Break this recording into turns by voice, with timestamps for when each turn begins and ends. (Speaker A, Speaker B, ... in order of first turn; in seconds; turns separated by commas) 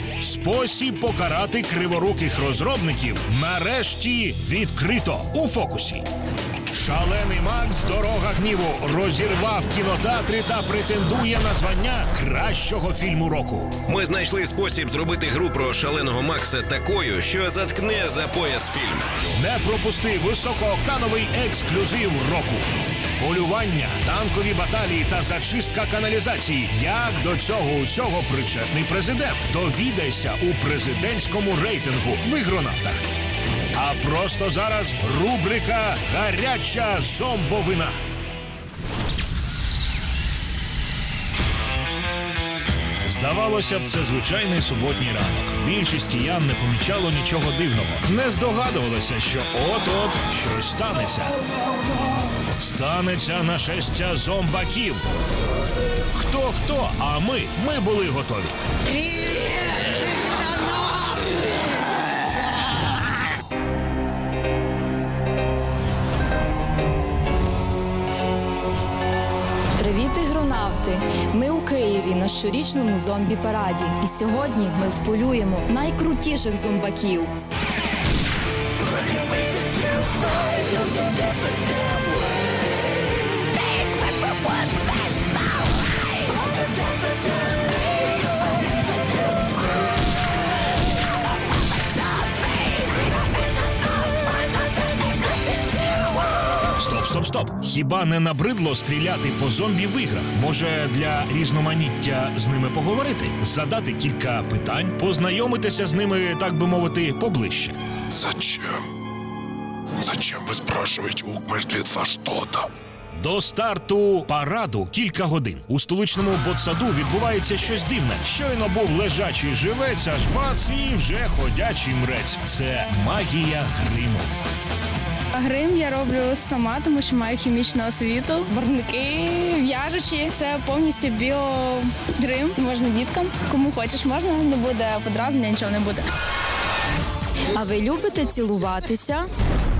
Speaker A: 0.2-6.0, Speaker A: 6.7-13.7, Speaker B: 13.9-19.1, Speaker A: 19.3-22.6, Speaker A: 23.2-33.2, Speaker A: 33.7-37.9, Speaker A: 43.0-51.3, Speaker A: 52.6-55.2, Speaker A: 56.1-58.5, Speaker C: 69.8-77.3, Speaker A: 96.7-107.8, Speaker D: 108.1-108.8, Speaker D: 110.0-112.7, Speaker A: 113.2-124.3, Speaker E: 125.3-136.1, Speaker C: 137.5-139.3